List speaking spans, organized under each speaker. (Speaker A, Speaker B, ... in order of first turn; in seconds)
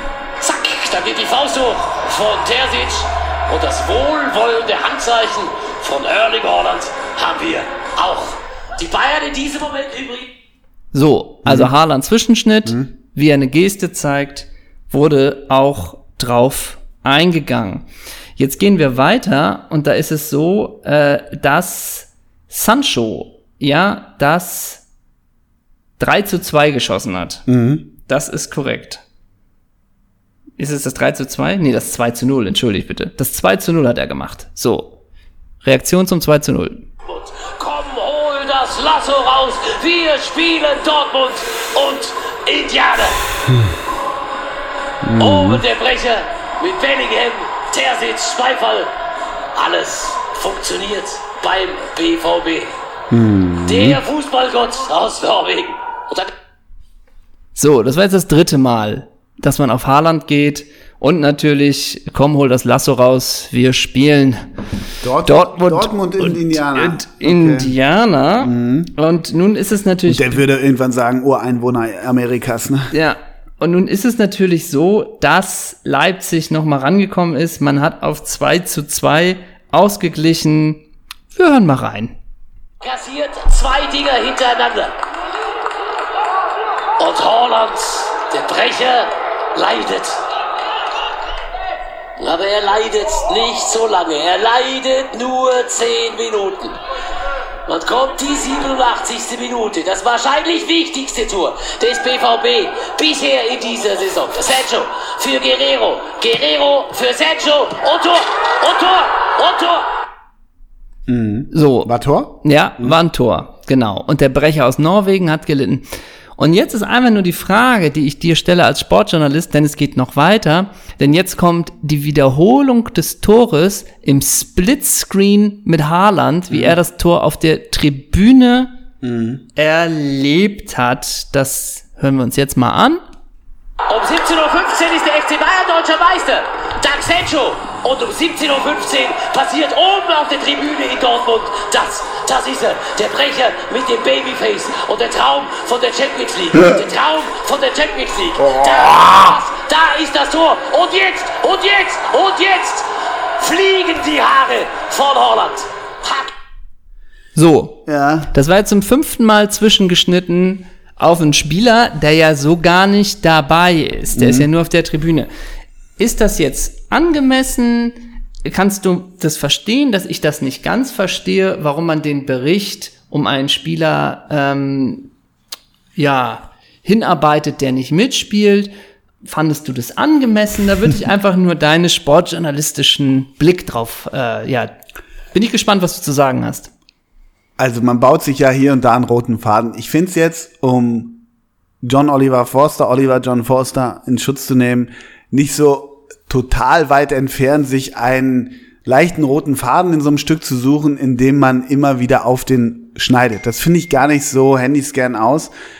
Speaker A: 0.4-10.3, 37.1-43.2, 45.2-48.9, 49.5-52.7, 53.6-56.3, 82.8-84.9, 87.0-90.2, 92.2-96.8, 97.7-109.9, 133.9-156.3
Speaker B: 10.9-17.9, 18.4-24.8, 26.0-27.4, 28.1-29.0, 30.6-35.0, 35.6-36.8, 57.5-64.5, 65.2-70.4, 72.9-80.8, 81.3-82.2, 111.5-128.7, 129.6-133.0, 157.3-165.3, 166.0-175.1, 175.9-178.7, 179.2-184.7, 185.3-186.7
Speaker C: 11.4-11.7, 27.5-27.9, 43.5-43.8, 45.0-45.6, 53.1-54.0, 65.0-67.7, 68.4-68.9, 70.1-72.9, 111.1-113.0, 126.5-126.8, 129.0-129.4, 148.4-149.4, 157.8-158.3, 164.1-164.5, 187.6-191.2, 191.8-205.5